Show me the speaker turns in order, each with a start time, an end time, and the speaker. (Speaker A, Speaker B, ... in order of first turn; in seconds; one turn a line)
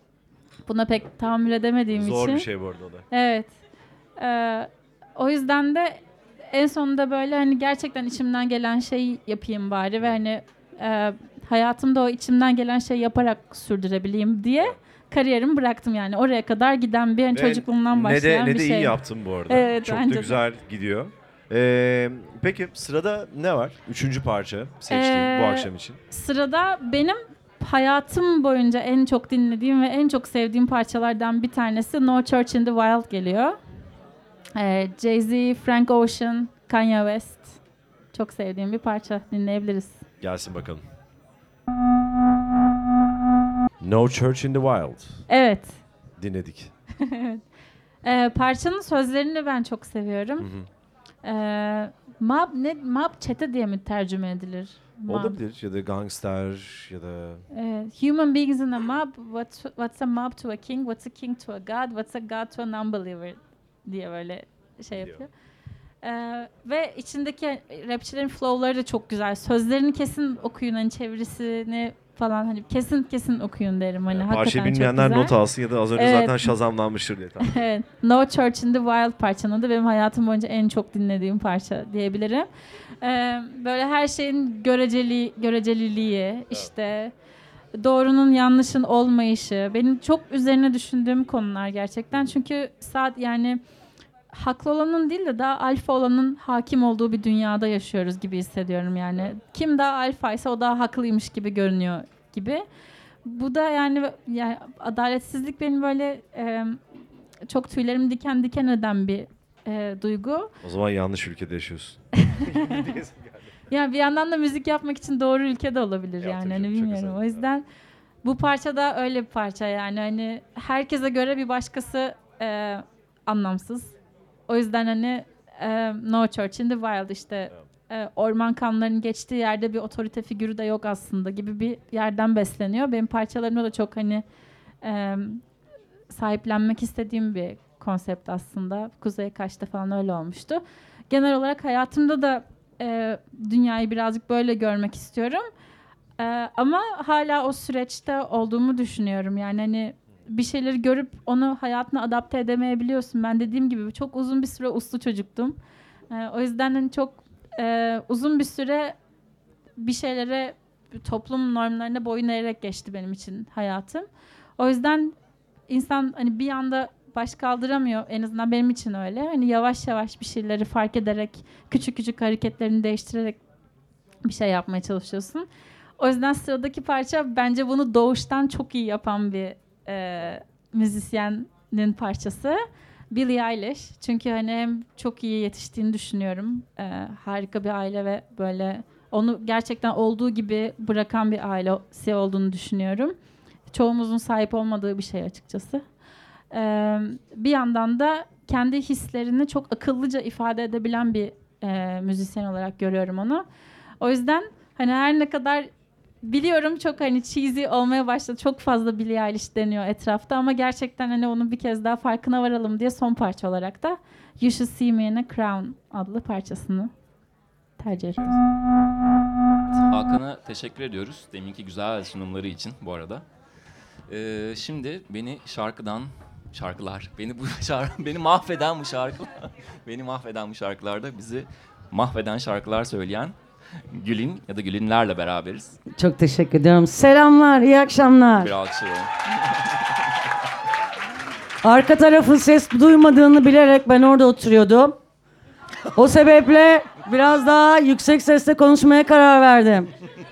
Speaker A: 0.7-2.5
Speaker B: 1.9-3.0
Speaker A: 3.1-3.5
Speaker A: 4.2-20.4
Speaker B: 17.3-26.0
Speaker A: 24.9-33.6
Speaker A: 34.6-37.6
Speaker A: 38.1-40.0
Speaker B: 40.2-40.8
Speaker B: 43.8-45.2
Speaker A: 45.3-45.8
Speaker B: 46.2-46.7
Speaker A: 47.0-47.4
Speaker A: 48.0-50.5
Speaker B: 50.4-50.7
Speaker A: 51.2-55.4
Speaker B: 55.1-57.5
Speaker A: 57.5-65.3
Speaker A: 66.0-75.4
Speaker B: 74.1-77.6
Speaker A: 76.0-76.5
Speaker A: 77.4-82.5
Speaker A: 83.0-87.1
Speaker A: 87.8-93.6
Speaker A: 94.3-102.7
Speaker A: 103.2-106.8
Speaker A: 107.5-110.5
Speaker B: 110.6-113.5
Speaker A: 112.2-112.9
Speaker A: 113.7-117.7
Speaker B: 116.2-117.4
Speaker A: 118.2-123.9
Speaker A: 124.5-134.2
Speaker A: 134.8-135.4
Speaker A: 136.1-145.5
Speaker A: 146.2-155.6
Speaker A: 156.1-158.9
Speaker A: 159.8-164.1
Speaker A: 164.6-165.2
Speaker A: 165.7-173.4
Speaker A: 174.2-175.5
Speaker A: 176.0-193.2
Speaker A: 193.7-195.8
Speaker A: 196.5-203.5
Speaker A: 204.0-205.7
Speaker A: 206.2-216.9
Speaker A: 217.8-218.4
Speaker C: 219.7-223.3
Speaker C: 224.1-235.8
Speaker D: 235.9-238.6
Speaker C: 238.4-239.7
Speaker D: 241.6-245.0
Speaker D: 245.9-249.9